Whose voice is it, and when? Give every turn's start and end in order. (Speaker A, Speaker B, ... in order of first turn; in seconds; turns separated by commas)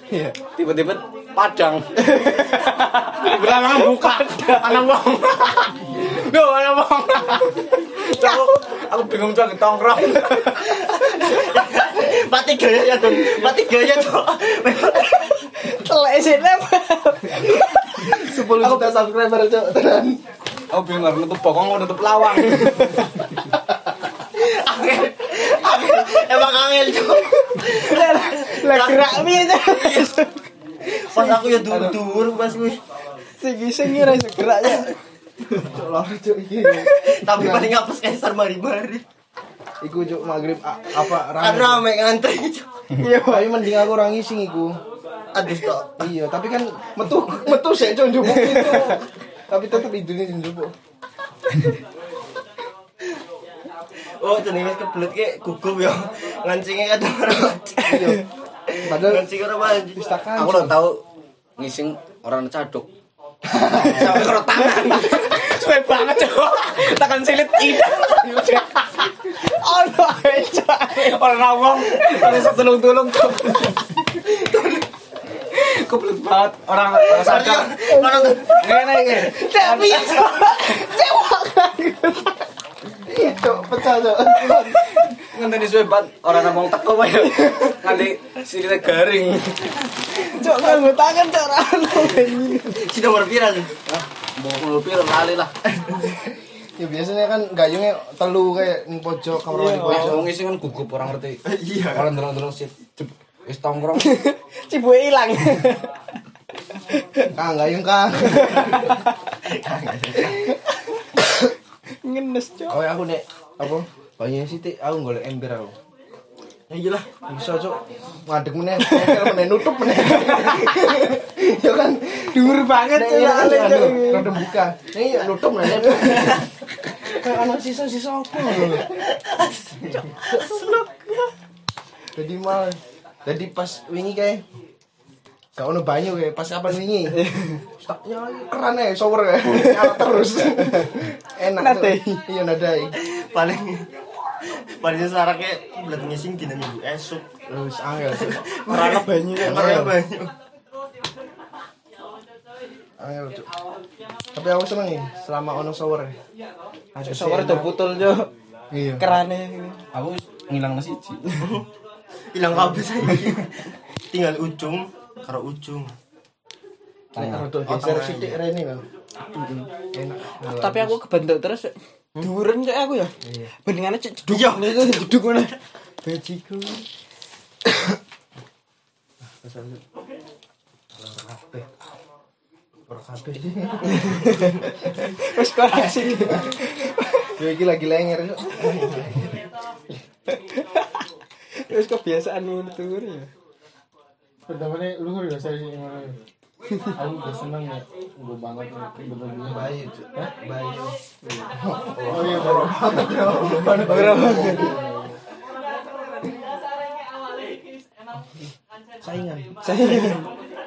Speaker A: 0.5-2.6, Speaker B: 2.0-5.0, Speaker A: 3.1-10.8, Speaker B: 7.4-8.5, Speaker B: 10.1-10.6, Speaker C: 10.6-15.5, Speaker B: 15.2-18.2, Speaker D: 17.9-20.2, Speaker A: 20.7-23.2, Speaker B: 22.6-23.2, Speaker C: 24.3-30.1, Speaker B: 27.8-30.4, Speaker C: 30.9-32.8, Speaker D: 31.7-32.0, Speaker B: 33.4-35.0, Speaker D: 35.5-37.7, Speaker B: 36.8-37.1, Speaker C: 37.0-39.0, Speaker D: 39.8-41.9, Speaker C: 41.0-42.7, Speaker B: 43.0-43.6, Speaker D: 43.2-44.8, Speaker C: 45.3-46.1, Speaker D: 46.0-50.7, Speaker B: 48.4-48.9, Speaker C: 54.2-57.9, Speaker B: 57.9-58.2, Speaker D: 57.9-58.2, Speaker C: 58.7-60.1, Speaker D: 58.8-59.3, Speaker D: 59.9-60.8, Speaker A: 60.3-61.0, Speaker A: 61.6-62.9, Speaker D: 63.5-64.4, Speaker A: 63.7-66.0, Speaker B: 64.8-71.2, Speaker A: 66.6-68.8, Speaker A: 70.9-73.8, Speaker B: 71.8-72.5, Speaker B: 73.4-73.8, Speaker C: 74.4-74.8, Speaker A: 75.5-77.9, Speaker C: 77.0-78.7, Speaker B: 77.9-78.5, Speaker A: 78.5-80.3, Speaker B: 79.1-82.5, Speaker C: 79.9-80.3, Speaker D: 83.0-84.9, Speaker B: 84.4-85.1, Speaker A: 85.2-89.8, Speaker B: 90.2-92.9, Speaker C: 90.4-90.8, Speaker C: 92.8-93.7, Speaker A: 93.9-95.5, Speaker C: 95.8-96.1, Speaker D: 96.8-100.3, Speaker B: 99.5-100.2, Speaker A: 99.8-104.2, Speaker C: 101.5-102.1, Speaker B: 104.0-105.9, Speaker B: 106.9-107.3, Speaker D: 107.3-108.8, Speaker B: 108.3-109.0, Speaker C: 108.5-108.9, Speaker C: 109.5-110.5, Speaker B: 112.0-112.8, Speaker D: 112.7-115.8, Speaker C: 116.7-117.1, Speaker D: 117.3-129.0, Speaker B: 118.8-119.2, Speaker B: 120.1-121.0, Speaker B: 122.3-124.4, Speaker C: 125.9-126.4, Speaker C: 128.4-130.8, Speaker B: 130.3-131.3, Speaker D: 132.2-134.4, Speaker D: 135.6-143.0, Speaker B: 137.2-137.6, Speaker B: 139.5-140.9, Speaker B: 141.5-142.3, Speaker C: 142.9-143.9, Speaker C: 144.7-147.3, Speaker D: 147.5-148.4, Speaker C: 148.1-150.3, Speaker B: 148.7-149.9, Speaker D: 149.4-149.9, Speaker D: 153.0-153.5, Speaker D: 154.3-156.2, Speaker D: 157.0-157.8, Speaker B: 157.1-158.3, Speaker D: 158.7-159.2, Speaker B: 159.0-159.8, Speaker A: 159.9-161.3, Speaker C: 161.4-161.7, Speaker C: 162.3-163.5, Speaker C: 164.1-165.9, Speaker A: 167.2-167.4, Speaker D: 167.2-168.8, Speaker C: 167.6-168.4, Speaker B: 169.3-169.7, Speaker D: 169.9-171.0, Speaker B: 170.4-176.9, Speaker D: 173.2-173.5, Speaker C: 174.3-175.2, Speaker D: 179.4-179.8, Speaker D: 181.0-181.7, Speaker D: 182.9-184.9, Speaker B: 185.1-187.3, Speaker D: 185.7-186.5, Speaker D: 187.4-189.4, Speaker B: 190.3-191.0, Speaker B: 191.6-193.3, Speaker E: 194.5-196.2, Speaker E: 196.9-199.7, Speaker D: 199.4-200.9, Speaker E: 201.2-205.2, Speaker D: 201.5-204.8, Speaker C: 202.3-203.9, Speaker B: 203.9-204.8, Speaker D: 209.0-210.1, Speaker B: 209.6-210.3